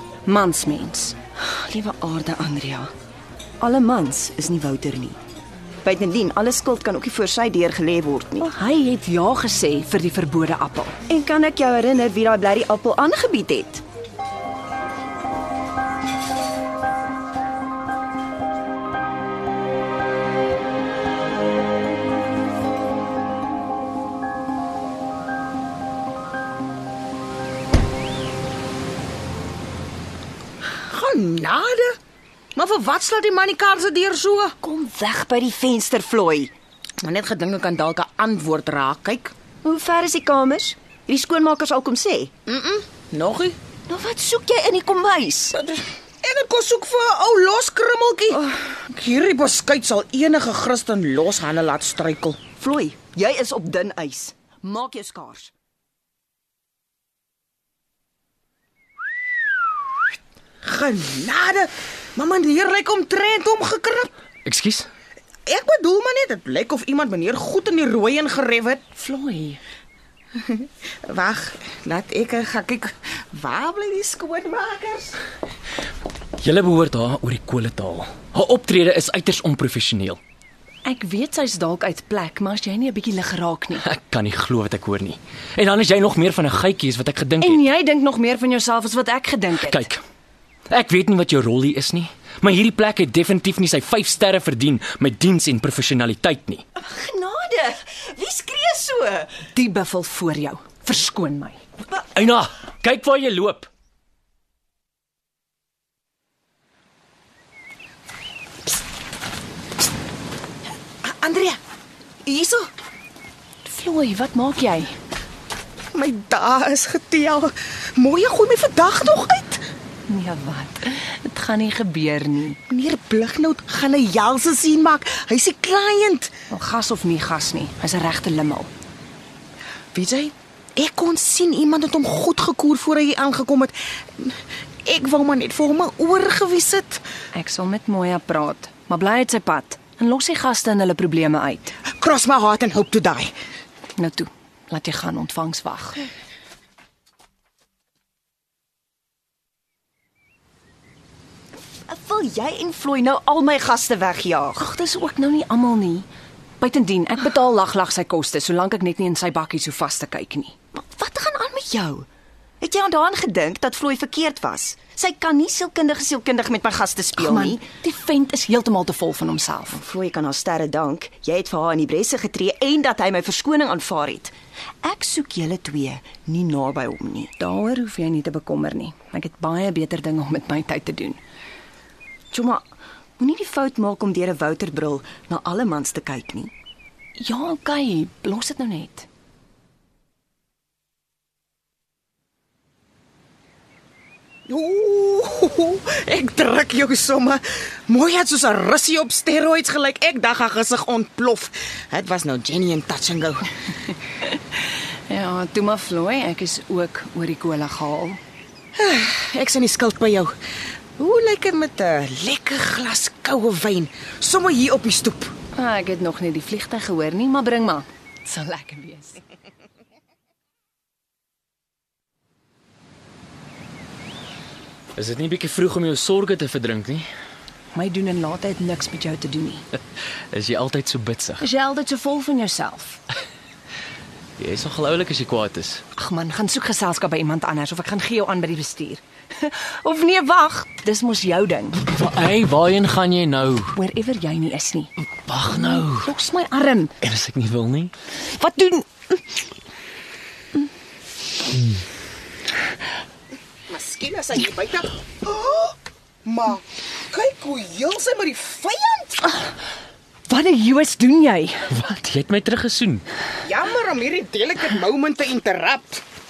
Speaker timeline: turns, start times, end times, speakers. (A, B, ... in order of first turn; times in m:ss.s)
0:00.2-0:01.2 A
0:01.4-0:02.9 B
0:03.6-0:05.2 B
0:05.8-0:08.5 B
0:08.4-0:11.0 A
0:11.1-0:13.8 B
0:30.9-0:32.0 C
0:32.5-0:34.6 C
0:34.6-0:36.5 B
0:37.0-0:39.3 C
0:39.6-0:42.3 B
0:42.4-0:43.6 C
0:43.9-0:45.6 B
0:45.5-0:52.4 C
0:52.6-0:55.5 B
1:00.6-1:04.1 C
1:04.4-1:04.9 D
1:05.4-1:08.8 C
1:09.0-1:09.6 A
1:10.4-1:15.2 C
1:16.4-1:20.2 D
1:20.8-1:23.8 A
1:23.8-1:27.6 D
1:27.4-1:29.9 A
1:29.6-1:30.0 D
1:30.7-1:36.6 D
1:36.8-1:39.3 B
1:39.5-1:41.6 A
1:42.1-1:43.7 D
1:51.0-1:51.6 C
1:52.2-1:52.6 C
1:53.6-1:54.9 A
1:55.9-1:59.6 C
2:00.1-2:02.6 A
2:02.7-2:06.3 C
2:06.5-2:08.7 A
2:09.9-2:17.0 C
2:17.3-2:21.8 A
2:21.9-2:23.3 C
2:24.0-2:26.0 A
2:31.9-2:34.7 B
2:34.6-2:36.1 A
2:36.6-2:40.5 A
2:40.7-2:42.1 B
2:42.6-2:47.6 B
2:47.2-2:49.8 A
2:49.7-2:57.3 B
2:57.4-3:01.2 A
3:02.3-3:02.6 B
3:03.2-3:06.5 B
3:07.2-3:09.1 A
3:14.5-3:23.5 C
3:25.1-3:28.2 A
3:28.7-3:30.3 C
3:31.0-3:35.3 C
3:35.5-3:39.2 A
3:45.0-3:47.1 D
3:47.7-3:49.6 A
3:50.3-3:51.4 D
3:51.4-3:53.0 A
3:54.4-3:55.8 D
3:55.9-4:01.8 A
4:01.9-4:03.7 D
4:03.7-4:04.9 A
4:05.2-4:06.1 D
4:05.5-4:06.9 A
4:07.0-4:07.9 D
4:08.4-4:08.8 A
4:13.7-4:19.2 C
4:20.3-4:21.7 A
4:21.7-4:23.0 D
4:23.4-4:26.0 C